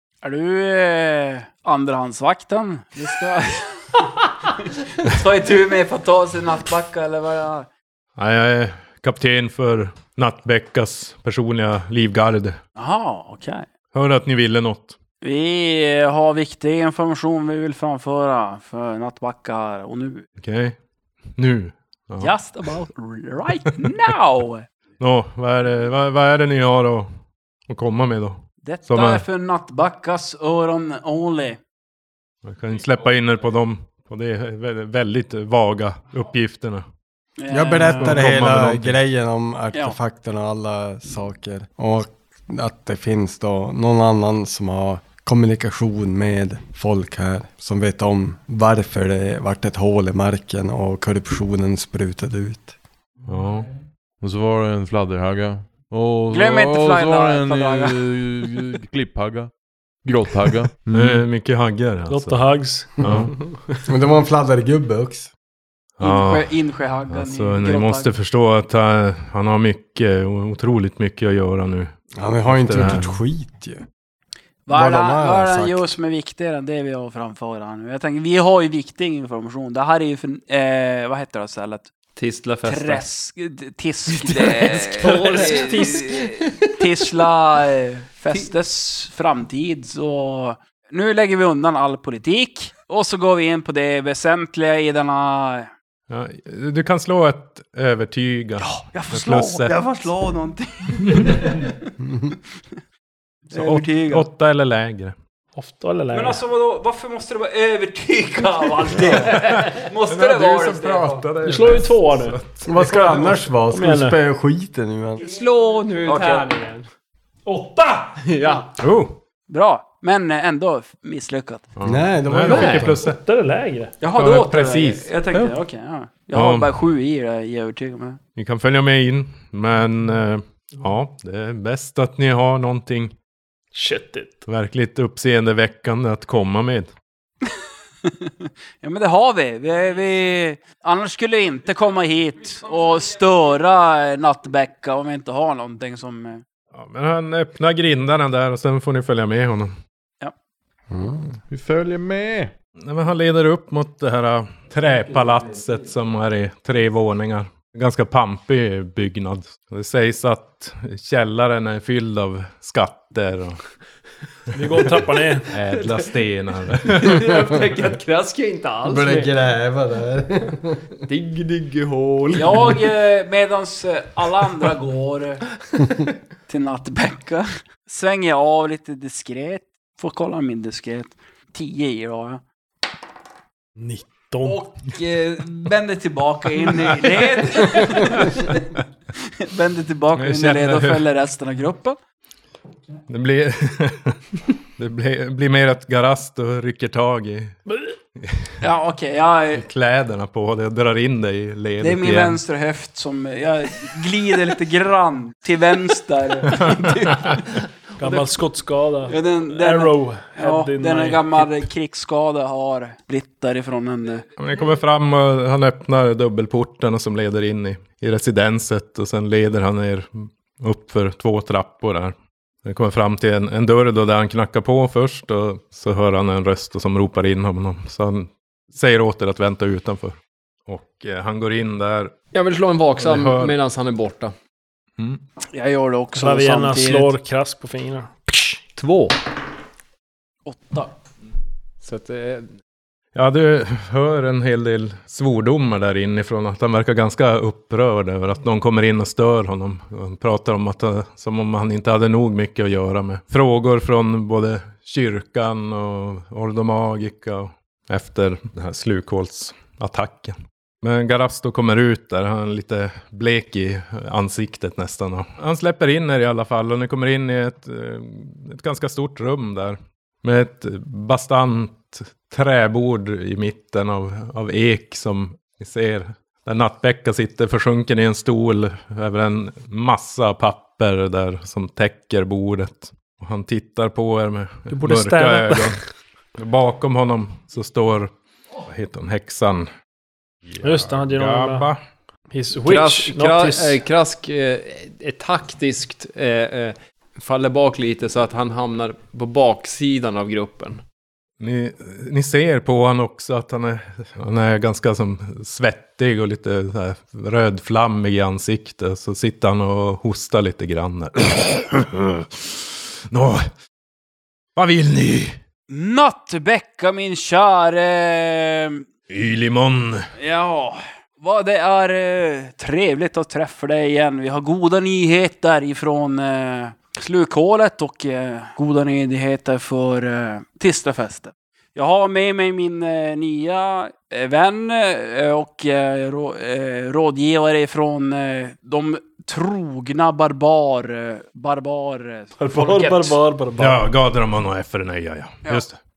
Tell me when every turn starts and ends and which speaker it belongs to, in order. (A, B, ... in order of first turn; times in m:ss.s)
0:00.2-0:07.7 A
0:08.2-0:12.6 B
0:12.8-0:13.6 A
0:13.9-0:15.0 B
0:15.2-0:20.2 A
0:20.4-0:20.8 B
0:21.4-0:22.3 B
0:22.2-0:24.6 A
0:25.0-0:27.1 B
0:27.7-0:29.2 B
0:28.6-0:31.6 A
0:32.4-0:36.8 B
0:37.4-0:38.2 A
0:37.5-0:52.7 C
0:38.0-0:39.0 B
0:53.2-0:53.7 B
0:54.2-0:59.5 D
0:56.3-0:58.0 A
1:00.0-1:01.2 D
1:00.9-1:03.3 B
1:02.1-1:03.4 E
1:03.9-1:05.3 C
1:06.0-1:06.6 B
1:06.0-1:08.1 A
1:07.1-1:13.2 B
1:12.2-1:13.8 C
1:14.6-1:21.9 A
1:14.7-1:15.9 C
1:22.2-1:23.0 F
1:22.6-1:35.7 A
1:24.2-1:26.7 F
1:36.1-1:39.7 B
1:38.6-1:41.9 A
1:41.0-1:41.5 B
1:43.5-1:44.2 A
1:43.5-1:45.2 B
1:45.6-1:46.4 E
1:46.1-1:51.2 A
1:49.3-1:53.4 B
1:50.6-1:51.8 C
1:51.4-1:52.4 E
1:52.6-1:55.2 C
1:53.7-1:54.2 E
1:55.2-1:56.9 F
1:56.0-1:56.5 A
1:57.4-1:58.1 E
1:58.2-1:58.7 F
1:58.8-1:59.2 B
1:59.5-2:01.7 A
2:01.8-2:03.2 B
2:01.8-2:03.0 C
2:02.5-2:03.9 E
2:04.0-2:08.2 A
2:04.1-2:05.5 B
2:06.3-2:06.7 B
2:08.4-2:13.1 B
2:13.7-2:14.4 E
2:14.4-2:16.9 B
2:18.0-2:26.4 A
2:26.7-2:29.7 B
2:30.9-2:31.2 C
2:31.4-2:32.5 D
2:32.8-2:43.6 B
2:44.5-2:45.5 E
2:44.6-2:47.2 B
2:45.7-2:46.1 F
2:46.8-2:49.3 F
2:48.8-2:50.8 C
2:51.0-2:52.8 F
2:52.3-2:55.4 A
2:56.5-3:02.4 A
3:03.8-3:04.5 E
3:04.4-3:12.0 A
3:06.7-3:07.0 B
3:10.2-3:11.0 B
3:13.1-3:17.6 B
3:18.2-3:18.5 B
3:18.6-3:19.6 A
3:19.5-3:22.4 B
3:21.8-3:27.4 A
3:26.5-3:27.4 B
3:28.0-3:31.4 E
3:29.1-3:34.2 A
3:34.4-3:42.1 B
3:42.6-3:50.2 B
3:50.7-3:52.1 B
3:52.3-3:54.3 F
3:53.0-3:53.6 B
3:55.5-3:57.1 A
3:56.2-3:58.1 E
3:58.8-3:59.2 F
4:00.4-4:00.9 A
4:01.8-4:02.5 F
4:03.1-4:45.8 B
4:44.7-4:45.8 E
4:46.4-4:48.1 B
4:48.6-4:49.7 B
4:50.4-4:51.8 B
4:50.6-4:51.7 E
4:52.3-4:53.8 E
4:52.6-5:00.8 F
5:01.4-5:13.4 B
5:14.6-5:15.4 B
5:15.7-5:18.8 A
5:19.1-5:20.0 B
5:20.2-5:43.2 A
5:42.4-5:43.8 E
5:43.6-5:45.8 B